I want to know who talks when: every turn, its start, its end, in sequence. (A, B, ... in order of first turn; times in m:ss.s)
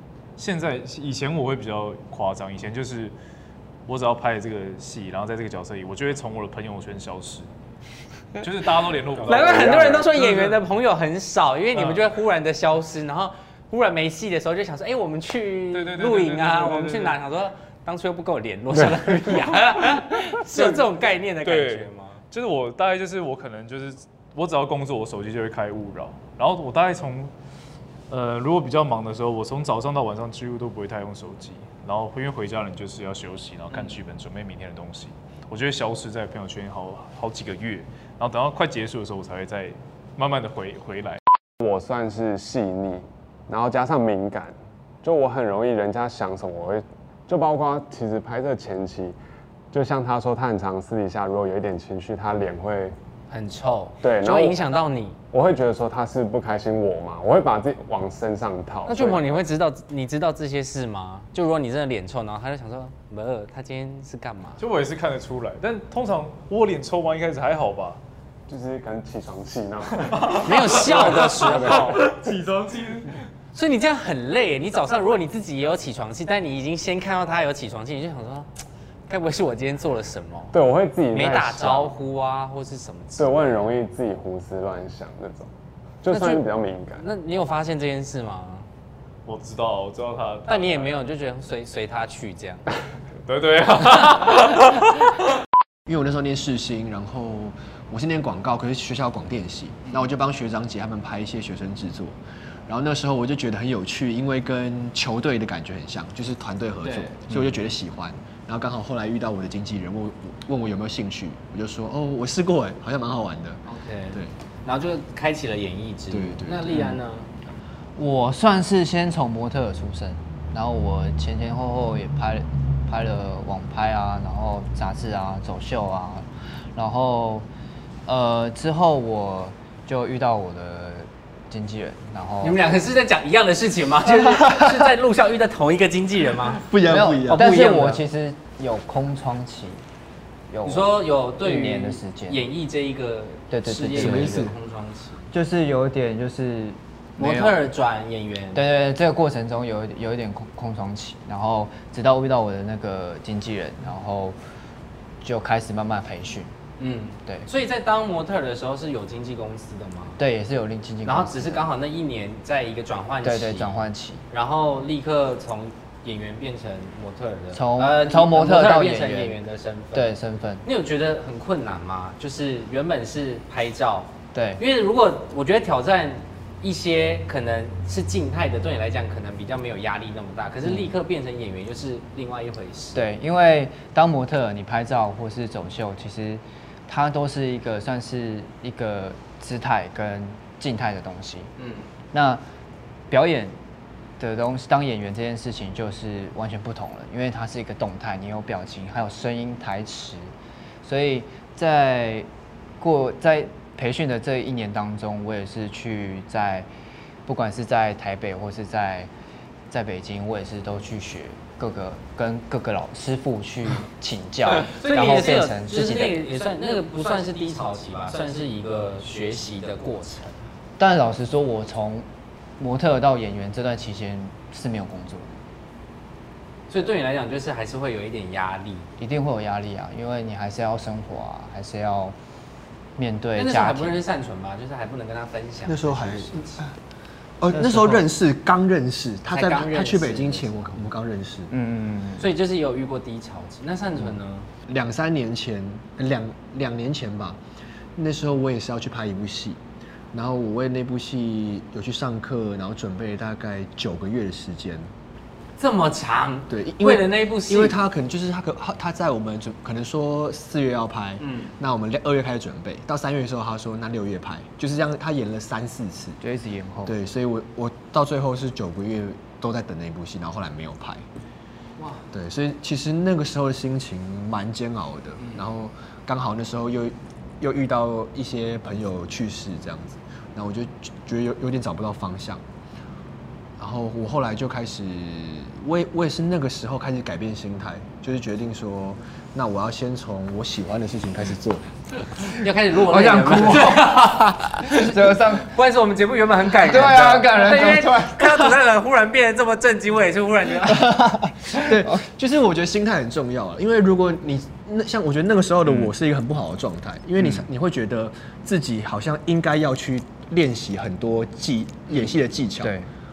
0:00.4-0:03.2 A
0:03.9-0:07.5 A
0:08.4-0:10.6 A
0:09.2-0:22.2 B
0:09.6-0:09.9 C
0:11.7-0:12.1 A
0:15.7-0:17.2 A
0:20.6-0:20.8 A
0:21.4-0:27.3 A
0:28.1-0:41.2 A
0:41.6-0:49.2 C
0:49.7-0:53.0 C
0:53.3-0:55.2 B
0:54.0-0:54.6 C
0:55.3-0:59.4 C
0:58.9-1:04.6 B
1:04.6-1:08.0 A
1:08.5-1:12.2 C
1:10.2-1:13.1 A
1:10.4-1:12.0 B
1:13.5-1:18.5 B
1:19.1-1:20.6 B
1:20.5-1:21.9 C
1:21.1-1:23.7 B
1:23.2-1:25.5 C
1:26.0-1:27.1 C
1:26.1-1:28.7 B
1:29.3-1:31.1 A
1:30.5-1:32.7 B
1:33.3-1:35.0 A
1:35.9-1:42.2 D
1:42.7-1:54.3 D
1:46.8-1:47.3 B
1:53.7-1:57.3 B
1:56.1-1:56.8 D
1:56.7-1:57.0 E
1:58.0-2:07.5 E
2:08.1-2:12.7 E
2:12.4-2:16.6 B
2:16.6-2:17.6 D
2:16.8-2:19.8 E
2:17.3-2:18.0 B
2:20.5-2:22.4 E
2:20.6-2:25.2 B
2:23.5-2:24.5 E
2:23.9-2:24.6 D
2:25.3-2:27.6 E
2:27.2-2:28.6 B
2:28.5-2:34.4 E
2:35.2-2:36.5 E
2:36.8-2:40.2 B
2:40.2-2:41.7 E
2:41.0-2:50.1 B
2:43.2-2:44.2 E
2:47.5-2:49.4 E
2:49.9-2:50.6 E
2:50.6-3:03.0 B
2:54.3-2:54.6 E
3:00.6-3:01.0 E
3:02.9-3:11.5 E
3:11.6-3:11.9 B
3:12.1-3:12.4 E
3:13.1-3:13.6 E
3:14.2-3:20.3 E
3:20.8-3:22.3 E
3:22.8-3:26.7 E
3:27.2-3:29.1 E
3:29.7-3:36.2 E
3:34.6-3:40.4 B
3:40.8-3:42.1 E
3:42.6-3:45.4 E
3:46.7-3:48.9 B
3:49.0-3:52.2 E
3:53.0-3:54.0 E
3:53.3-3:56.6 B
3:55.7-3:56.6 D
3:57.4-4:01.5 D
3:57.5-3:58.1 E
3:59.3-4:00.8 B
4:01.5-4:02.3 E
4:02.2-4:04.5 B
4:04.7-4:07.4 D
4:08.0-4:09.6 D
4:10.1-4:14.9 D
4:15.6-4:17.8 B
4:16.5-4:26.2 D
4:21.2-4:21.5 B
4:26.2-4:26.9 E
4:26.9-4:31.0 D
4:31.8-4:32.0 B
4:32.1-4:42.4 D
4:35.2-4:35.4 B
4:43.6-4:51.7 D
4:52.2-5:01.1 B
4:52.2-4:54.2 D
4:53.4-4:53.8 E
4:54.7-4:55.5 E
4:56.6-4:58.6 E
5:00.7-5:02.0 E
5:01.5-5:12.7 D
5:07.2-5:07.5 E
5:12.6-5:12.9 E